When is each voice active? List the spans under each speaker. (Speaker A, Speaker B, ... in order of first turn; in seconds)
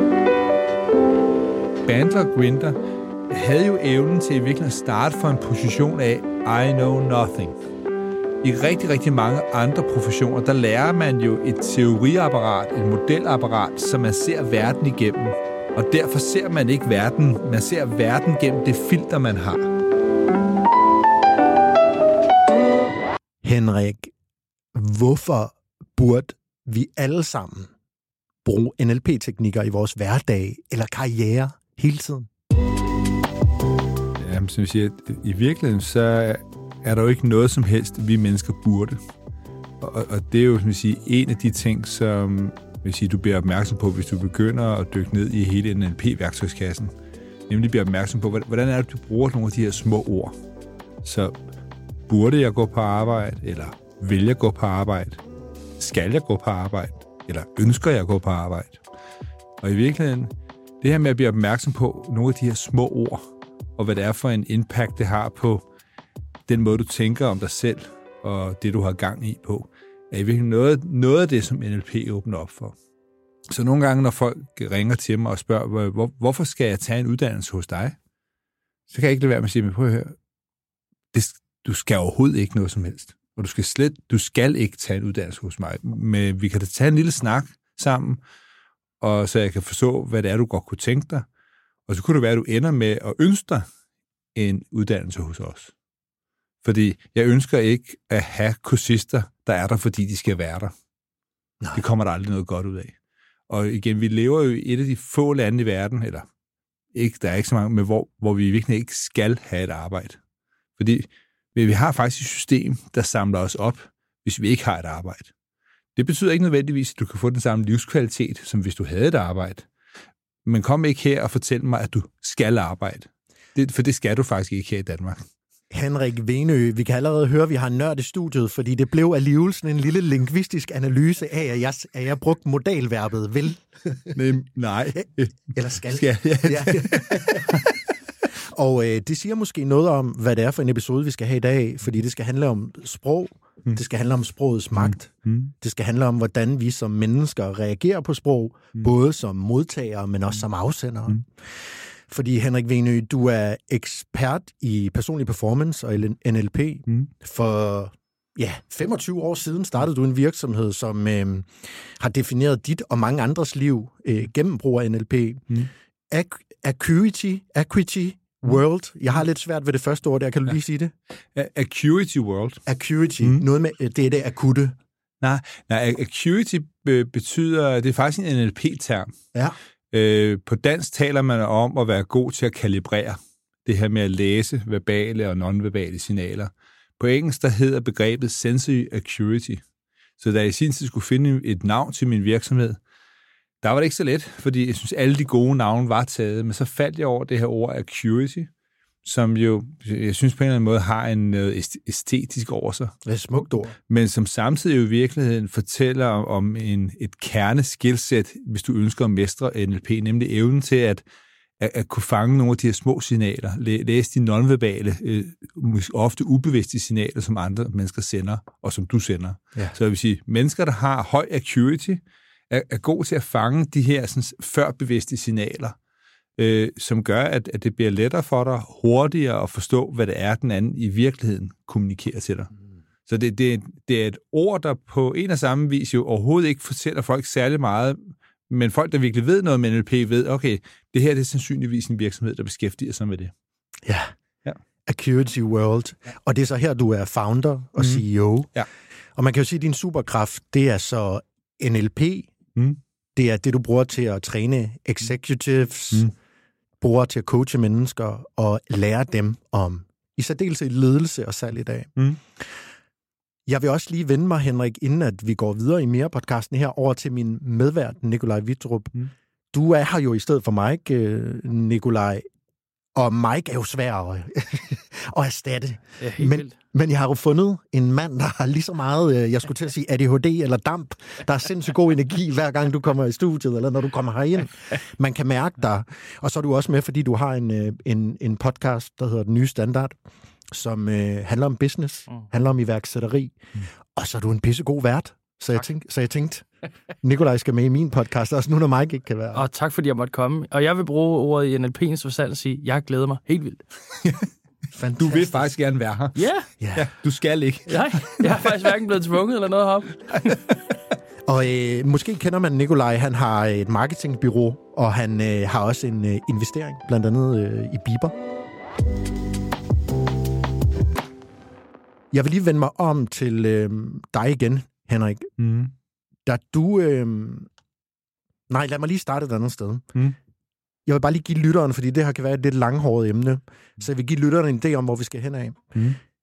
Speaker A: 1.9-2.8, 3.3-7.6, 8.4-19.7, 34.2-39.0, 39.8-46.9, 47.5-50.4, 51.0-51.4, 52.1-55.2, 55.8-58.8, 59.6-65.7, 66.5-72.8, 73.5-78.0, 78.9-80.2, 81.1-88.2, 89.0-91.3, 91.9-93.7, 94.3-95.7, 96.6-100.7, 101.7-103.0, 103.5-106.3, 106.9-110.2, 110.8-115.3, 116.0-119.7, 120.5-125.2, 134.1-137.7, 144.8-145.5, 171.3-172.6, 175.2-179.1, 179.9-189.6, 190.2-192.8, 193.6-198.5, 199.1-203.0, 203.9-211.0, 211.6-225.8, 226.4-232.5, 233.1-243.3, 247.8-248.7, 305.0-306.2, 306.8-308.3, 325.4-325.7
Speaker B: 23.4-24.1, 24.7-27.7, 28.4-32.3, 125.7-134.2, 134.9-137.7, 138.4-170.9, 172.7-174.8, 203.1-203.8, 243.8-244.2, 244.9-248.5, 249.2-252.3, 253.2-256.1, 256.8-262.6, 263.5-268.9, 269.5-272.2, 272.9-290.0, 290.5-296.5, 297.0-299.5, 304.7-305.5, 306.6-306.9, 311.3-318.1, 322.1-325.3, 326.3-327.5, 328.5-329.9, 330.9-335.8
Speaker C: 276.0-276.6, 299.3-303.6, 306.1-306.5, 307.7-310.4